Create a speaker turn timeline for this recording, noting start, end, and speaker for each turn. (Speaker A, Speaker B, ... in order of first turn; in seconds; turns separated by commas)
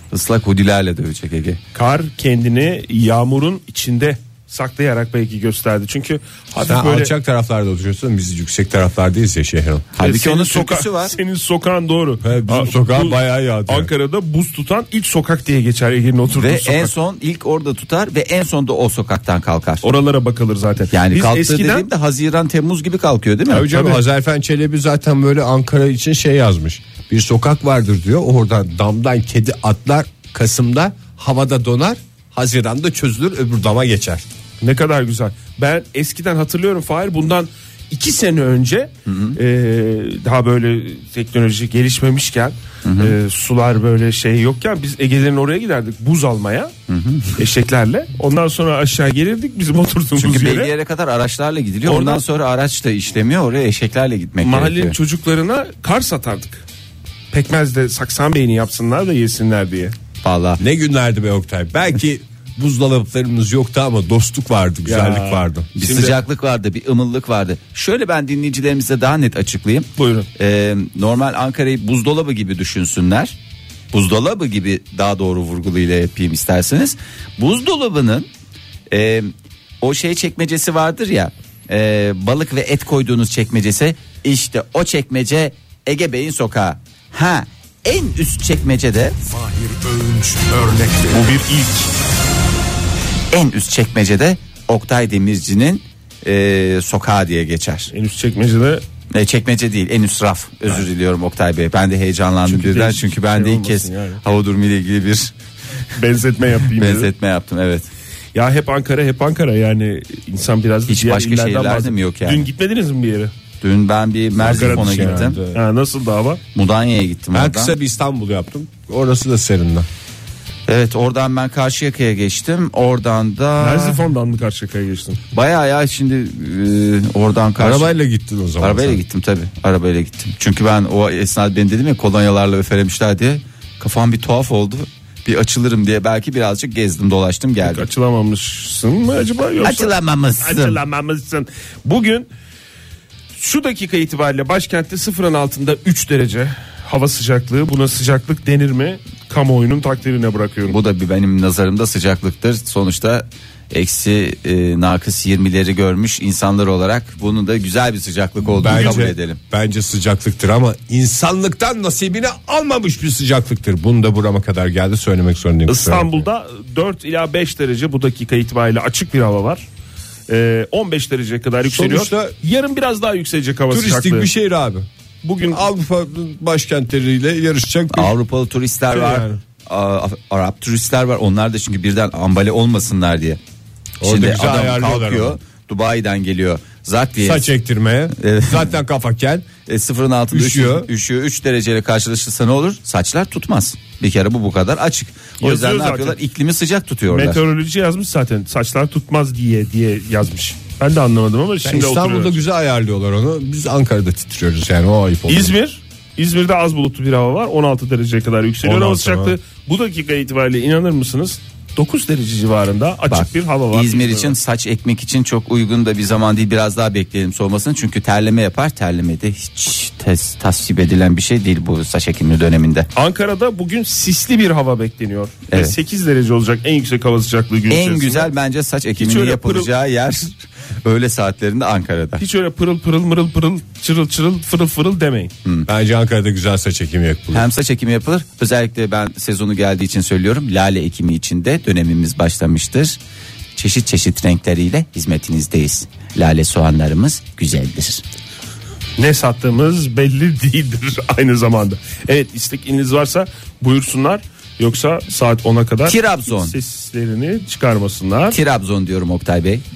Speaker A: 0.1-1.6, Speaker B: 1.7-7.1, Speaker C: 6.6-9.9, Speaker A: 9.9-11.2, Speaker B: 10.0-16.9, Speaker C: 12.2-13.9, Speaker A: 16.3-19.9, Speaker B: 19.8-21.9, Speaker A: 20.9-23.7, Speaker C: 23.5-34.2, Speaker B: 23.7-24.0, Speaker B: 34.6-46.7, Speaker A: 39.0-39.4, Speaker A: 42.8-43.1, Speaker A: 46.9-47.4, Speaker B: 47.4-50.7, Speaker A: 50.2-55.0, Speaker B: 51.8-52.2, Speaker B: 54.4-56.6, Speaker B: 57.3-59.9, Speaker A: 60.2-60.6, Speaker C: 60.6-65.7, Speaker B: 64.8-66.2, Speaker A: 65.8-73.3, Speaker B: 70.0-70.3, Speaker A: 73.9-78.3, Speaker A: 78.9-79.3, Speaker A: 79.8-89.2, Speaker C: 89.3-91.3, Speaker B: 90.9-91.9, Speaker A: 93.3-97.9, Speaker B: 97.9-98.8, Speaker A: 99.1-105.3, Speaker B: 102.4-104.2, Speaker B: 105.9-107.1, Speaker A: 106.8-107.9, Speaker B: 108.3-113.3, Speaker A: 110.9-112.5, Speaker A: 113.6-115.4, Speaker C: 114.4-115.6, Speaker B: 114.4-116.4, Speaker A: 116.5-117.7, Speaker C: 117.3-119.9, Speaker A: 120.7-124.0, Speaker B: 123.6-125.2, Speaker A: 125.3-127.9, Speaker C: 127.6-129.0, Speaker A: 128.6-137.8, Speaker B: 137.6-142.3, Speaker A: 139.6-140.8, Speaker B: 143.3-150.8, Speaker A: 150.7-159.4, Speaker C: 158.6-166.2, Speaker B: 158.6-159.1, Speaker B: 165.7-169.6, Speaker B: 170.3-174.3, Speaker C: 171.6-172.3, Speaker C: 173.7-174.9, Speaker B: 175.2-175.6, Speaker C: 175.5-178.2, Speaker A: 177.9-183.4, Speaker C: 178.9-179.4, Speaker C: 184.0-185.4, Speaker A: 184.0-187.5, Speaker C: 187.2-189.5, Speaker A: 188.1-188.7, Speaker A: 189.7-197.4, Speaker C: 190.3-190.9, Speaker B: 195.4-196.2, Speaker B: 197.1-202.4, Speaker C: 201.6-205.6, Speaker B: 205.3-214.4, Speaker C: 208.6-209.3, Speaker A: 213.1-222.9, Speaker B: 222.9-228.3, Speaker A: 225.5-225.7, Speaker A: 227.7-232.2, Speaker B: 229.0-229.7, Speaker B: 232.2-235.3, Speaker C: 235.7-237.5, Speaker A: 237.3-243.0, Speaker A: 243.6-248.0, Speaker B: 249.0-258.4, Speaker A: 255.8-256.5, Speaker A: 258.3-259.6